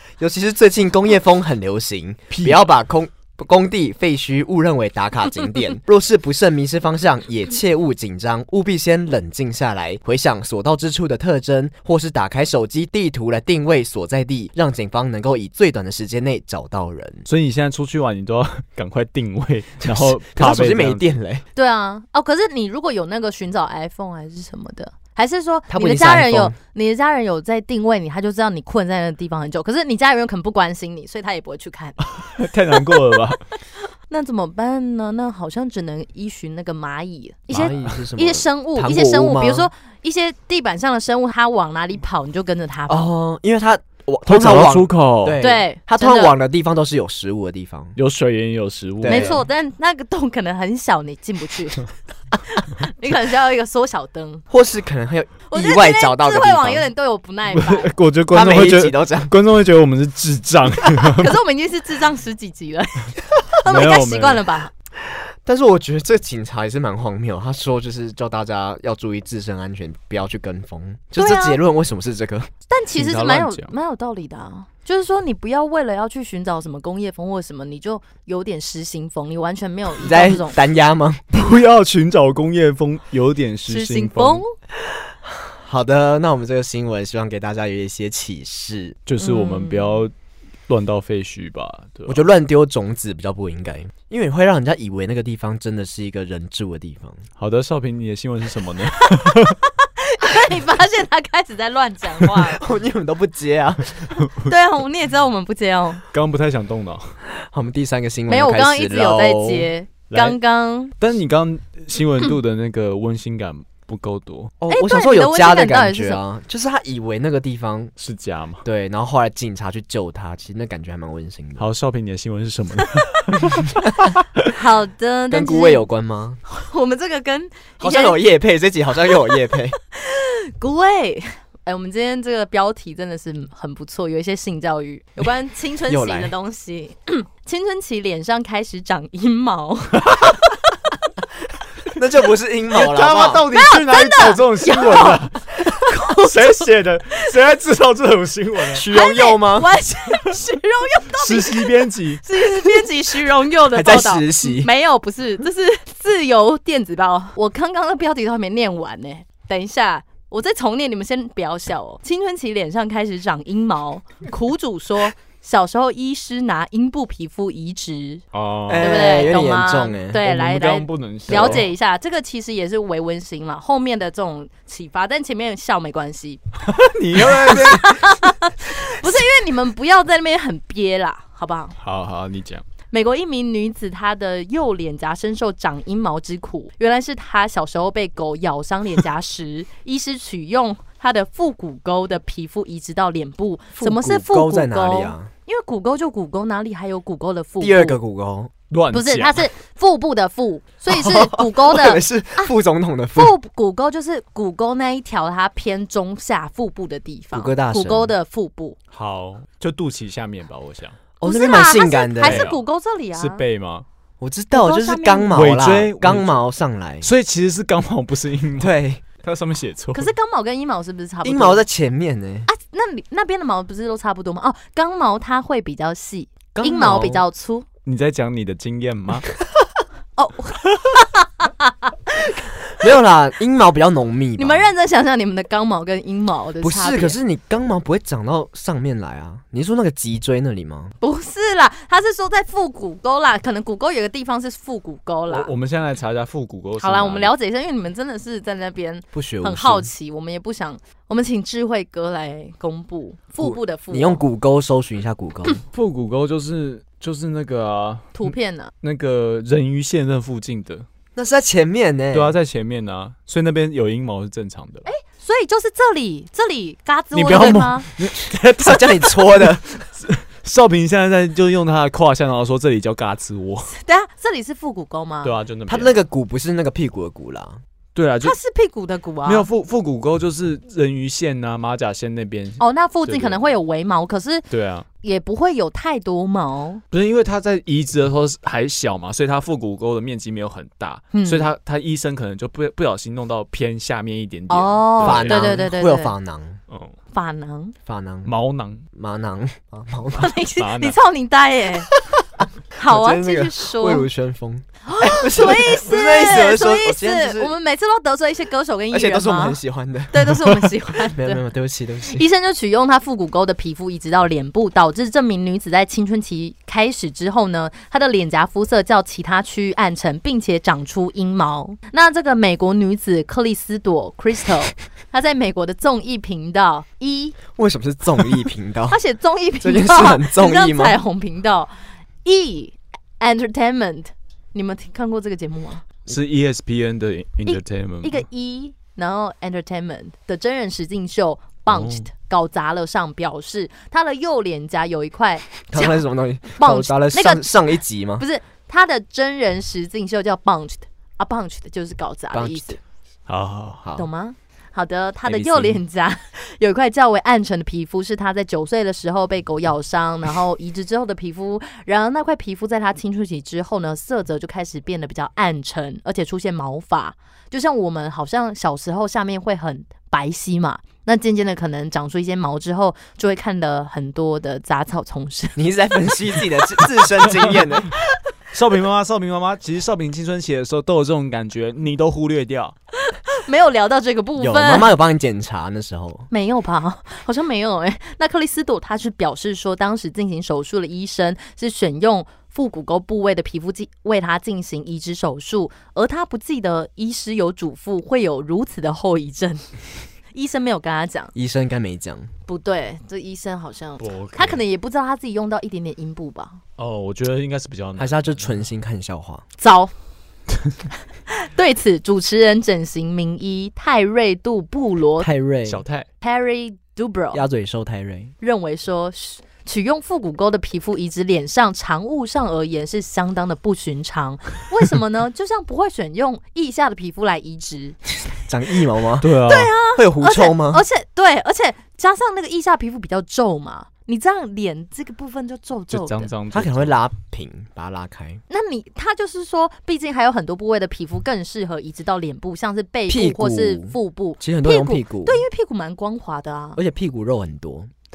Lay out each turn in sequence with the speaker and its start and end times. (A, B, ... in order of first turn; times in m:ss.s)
0:00.2-0:17.3 A
0:02.3-0:02.6 B
0:17.3-0:21.1 B
0:19.8-0:21.4 A
0:21.5-0:32.0 C
0:25.7-0:26.6 A
0:32.1-0:33.4 B
0:34.1-0:43.1 C
0:37.5-0:39.7 A
0:42.9-0:48.0 A
0:44.2-0:45.4 B
0:45.4-0:46.3 C
0:48.0-0:49.4 B
0:49.0-0:49.4 A
0:49.0-0:51.9 C
0:52.5-0:54.4 C
0:54.5-0:56.9 A
0:55.5-0:57.9 C
0:57.5-1:01.4 B
0:58.3-0:59.3 A
1:01.0-1:04.7 C
1:03.6-1:04.4 B
1:05.4-1:12.5 A
1:11.2-1:11.6 C
1:12.7-1:20.6 C
1:12.9-1:13.7 B
1:20.0-1:21.2 A
1:21.3-1:24.4 B
1:23.7-1:24.4 C
1:24.9-1:29.0 A
1:29.0-1:30.1 B
1:29.2-1:30.0 C
1:30.7-1:32.2 B
1:32.1-1:37.2 A
1:37.4-1:39.6 B
1:39.2-1:42.6 C
1:42.4-1:44.2 A
1:44.2-1:44.5 B
1:44.4-1:46.0 C
1:46.1-1:47.2 B
1:47.5-1:49.7 A
1:48.3-1:50.9 C
1:50.1-1:50.4 B
1:51.0-1:54.5 B
1:54.6-1:57.9 A
1:54.7-1:56.2 C
1:58.0-1:58.6 B
1:58.6-2:01.7 A
2:01.6-2:04.2 B
2:04.4-2:05.8 C
2:05.3-2:06.4 A
2:06.4-2:08.2 C
2:07.8-2:09.8 A
2:09.9-2:20.4 C
2:15.9-2:16.3 A
2:21.9-2:23.4 A
2:22.7-2:25.4 B
2:23.5-2:26.6 C
2:26.1-2:28.8 B
2:28.7-2:29.7 A
2:28.9-2:48.2 C
2:31.1-2:32.2 B
2:33.7-2:34.7 A
2:48.3-2:49.3 B
2:48.7-2:50.2 A
2:48.8-2:56.4 C
2:50.2-2:51.7 B
2:51.3-2:51.6 A
2:56.6-2:58.1 B
2:57.2-3:01.7 C
3:01.8-3:02.6 B
3:02.9-3:18.0 C
3:13.8-3:15.3 A
3:17.6-3:18.5 A
3:18.7-3:19.4 B
3:18.9-3:22.5 C
3:20.9-3:23.3 A
3:23.2-3:28.8 C
3:27.3-3:28.1 A
3:28.9-3:31.0 B
3:31.2-3:32.5 A
3:31.2-3:33.4 C
3:32.2-3:32.6 B
3:33.1-3:33.8 B
3:34.2-3:37.1 A
3:34.5-3:35.4 C
3:35.3-3:36.4 B
3:37.0-3:40.1 B
3:38.6-3:39.0 A
3:39.9-3:41.6 C
3:41.2-3:42.5 A
3:42.5-3:47.7 C
3:46.5-3:47.2 A
3:47.8-3:49.3 B
3:50.2-3:52.3 C
3:52.8-3:54.7 A
3:54.4-3:57.2 C
3:56.6-4:00.9 A
4:01.0-4:05.5 C
4:05.3-4:07.3 B
4:06.8-4:14.2 C
4:09.1-4:09.9 A
4:13.4-4:15.6 A
4:15.7-4:20.9 B
4:18.1-4:18.7 C
4:21.2-4:22.4 A
4:22.1-4:24.8 B
4:24.8-4:27.9 C
4:27.1-4:33.7 B
4:28.6-4:29.6 A
4:33.7-4:35.3 C
4:35.2-4:36.0 B
4:35.7-4:37.6 A
4:37.9-4:38.4 B
4:38.2-4:39.5 C
4:39.2-4:43.4 B
4:42.6-4:44.5 C
4:44.5-4:44.8 B
4:45.0-4:46.8 C
4:46.9-4:55.6 B
4:51.1-4:51.5 C
4:54.5-4:56.1 C
4:55.0-4:56.6 A
4:57.1-4:57.7 C
4:57.8-4:58.3 A
4:58.2-4:58.8 B
4:58.9-5:00.3 A
5:00.2-5:01.9 C
5:00.5-5:01.0 B
5:01.9-5:07.5 A
5:02.8-5:04.1 C
5:04.9-5:09.6 C
5:08.9-5:10.3 A
5:10.1-5:11.4 C
5:11.1-5:12.2 A
5:12.0-5:27.4 C
5:27.5-5:29.0 A
5:28.9-5:31.7 C
5:29.6-5:31.0 A
5:32.2-5:35.8 C
5:36.1-5:38.2 B
5:37.4-5:47.6 C
5:41.7-5:42.1 B
5:45.7-5:48.2 A
5:48.2-5:52.8 C
5:52.3-5:52.8 A
5:53.3-5:53.8 B
5:53.8-5:54.1 A
5:54.0-6:15.6 C
5:55.2-5:55.8 B
6:15.6-6:18.0 A
6:18.5-6:22.7 B
6:23.0-6:24.9 C
6:24.4-6:26.3 A
6:26.3-6:39.8 C
6:40.3-6:41.3 C
6:41.3-6:42.3 A
6:42.5-6:46.6 C
6:44.0-6:44.6 B
6:46.8-6:48.5 B
6:48.0-6:49.4 A
6:49.6-6:49.9 C
6:51.3-6:55.3 C
6:55.2-6:55.8 A
6:55.7-6:56.0 B
6:56.2-6:57.4 C
6:57.3-6:58.3 A
6:58.4-7:08.0 C
7:08.5-7:09.4 A
7:09.2-7:09.7 B
7:09.4-7:16.3 C
7:09.9-7:10.8 A
7:15.9-7:16.9 B
7:16.5-7:18.4 A
7:18.5-7:26.8 C
7:23.1-7:25.4 A
7:26.8-7:27.9 A